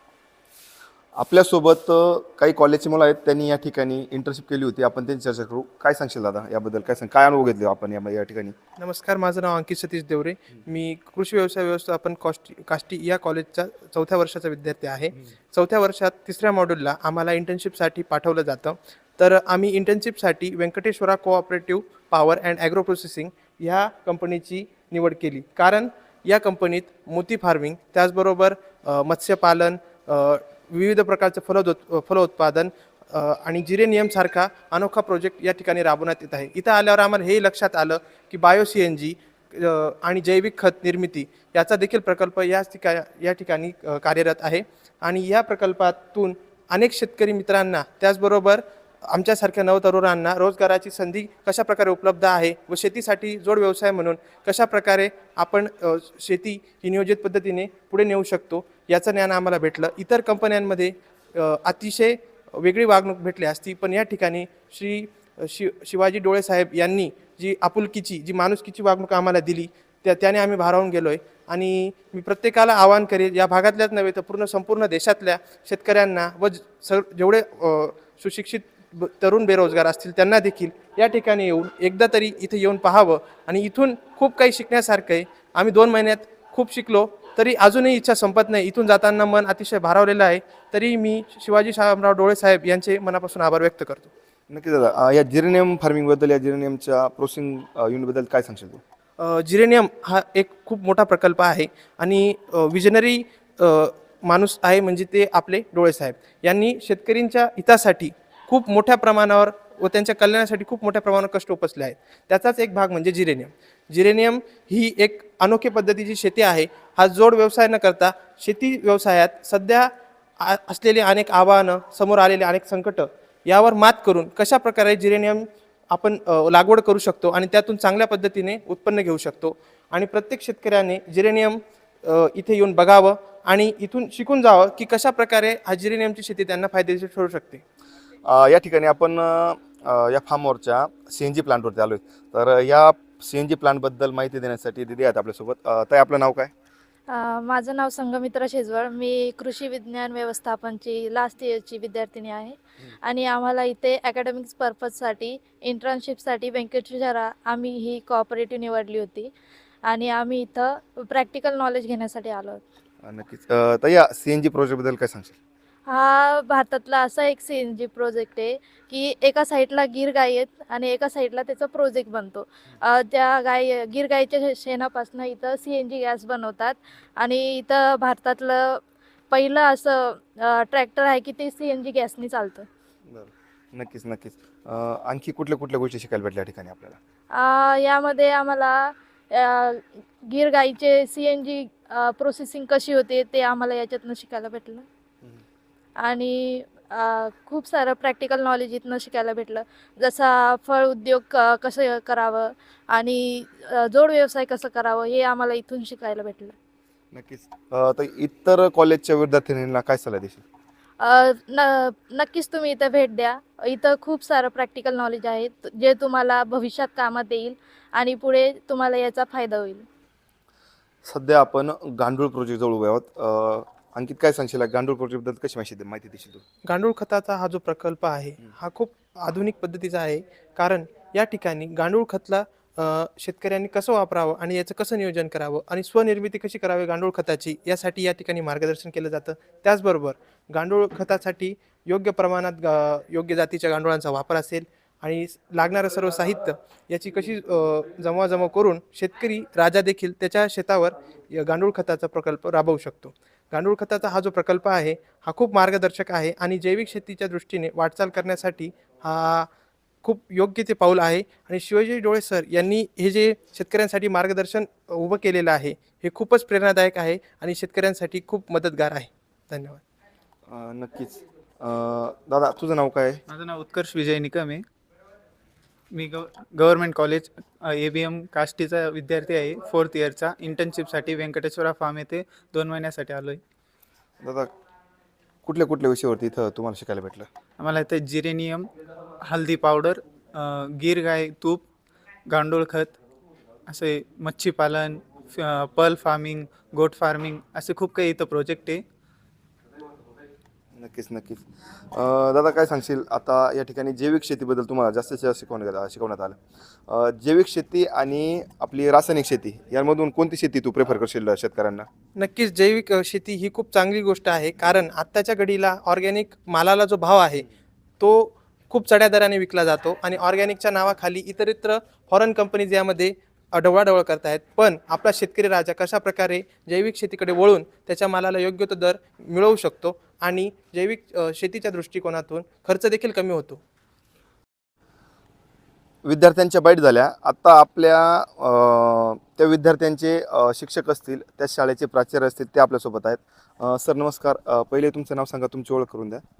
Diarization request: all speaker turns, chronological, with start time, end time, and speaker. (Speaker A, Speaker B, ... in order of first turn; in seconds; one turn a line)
Speaker A: 1.2-8.5
Speaker B: 8.8-94.1
Speaker A: 94.5-98.8
Speaker B: 99.2-119.9
Speaker B: 120.4-137.6
Speaker A: 138.2-146.5
Speaker C: 147.1-159.3
Speaker C: 159.8-162.6
Speaker A: 163.0-165.4
Speaker C: 165.9-182.7
Speaker A: 183.1-187.0
Speaker C: 187.3-194.8
Speaker C: 196.0-206.5
Speaker A: 207.1-210.4
Speaker C: 211.0-219.8
Speaker A: 221.1-226.4
Speaker B: 226.6-259.5
Speaker B: 260.0-269.8
Speaker A: 270.5-273.2
Speaker D: 273.3-274.6
Speaker D: 275.9-283.4
Speaker A: 284.2-284.5
Speaker A: 285.4-287.3
Speaker D: 287.6-288.6
Speaker D: 289.3-291.6
Speaker D: 292.3-292.9
Speaker D: 293.7-298.8
Speaker A: 300.8-306.4
Speaker A: 306.9-311.9
Speaker B: 312.1-317.4
Speaker B: 318.0-333.6
Speaker A: 336.0-346.2